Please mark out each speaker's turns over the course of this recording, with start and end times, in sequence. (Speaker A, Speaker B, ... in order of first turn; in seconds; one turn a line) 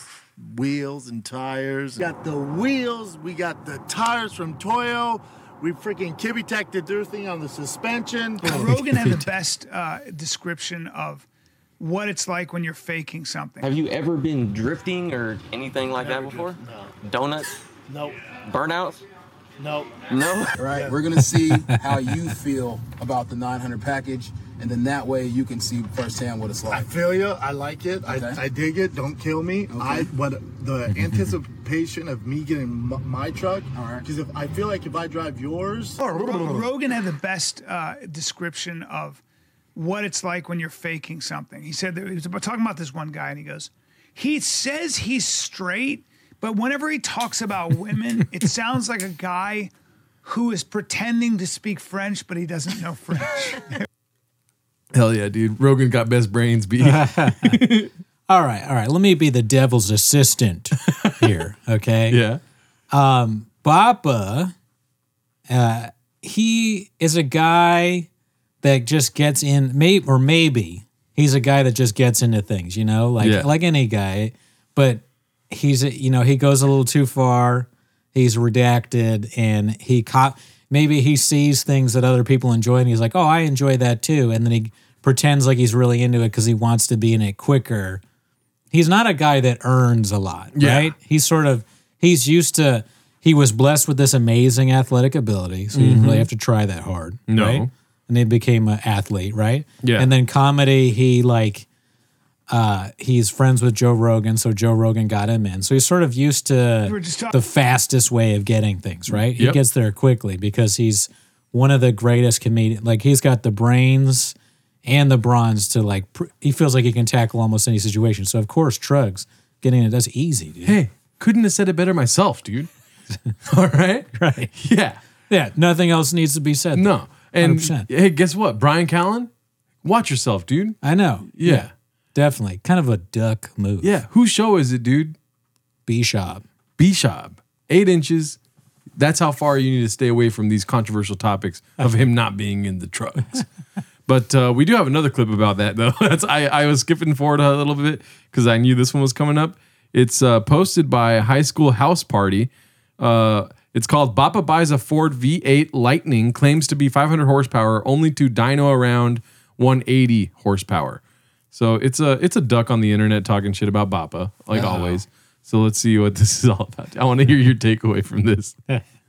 Speaker A: 0.4-8.6
Speaker B: 8.4-11.3
Speaker C: 8.5-9.2
Speaker B: 11.8-13.6
Speaker D: 13.6-17.5
Speaker A: 16.0-16.9
Speaker A: 17.9-18.2
Speaker D: 18.5-19.0
Speaker A: 19.6-19.9
Speaker D: 20.1-20.5
Speaker E: 20.6-26.9
Speaker A: 26.7-36.6
Speaker E: 28.0-28.4
Speaker E: 29.7-30.1
Speaker E: 33.7-34.1
Speaker B: 36.1-39.2
Speaker B: 39.8-49.7
Speaker B: 50.2-53.7
Speaker C: 54.9-57.9
Speaker F: 56.8-57.6
Speaker F: 58.3-62.2
Speaker C: 60.9-61.3
Speaker C: 62.1-62.4
Speaker F: 62.9-64.5
Speaker F: 65.5-68.1
Speaker F: 68.6-88.0
Speaker C: 73.2-73.5
Speaker F: 88.7-101.7
Speaker C: 90.6-90.9
Speaker C: 95.7-96.3
Speaker C: 97.3-97.7
Speaker C: 99.8-100.1
Speaker F: 102.5-114.3
Speaker B: 106.8-107.3
Speaker C: 109.1-109.6
Speaker F: 114.8-120.8
Speaker C: 120.7-122.7
Speaker C: 123.5-125.0
Speaker F: 124.1-124.5
Speaker F: 125.3-127.9
Speaker C: 126.7-129.3
Speaker C: 129.8-130.8
Speaker F: 130.8-133.9
Speaker C: 131.3-131.7
Speaker C: 133.8-135.2
Speaker F: 135.9-136.4
Speaker C: 136.8-138.4
Speaker C: 139.0-143.4
Speaker C: 144.1-161.0
Speaker C: 161.5-168.6
Speaker F: 164.5-165.0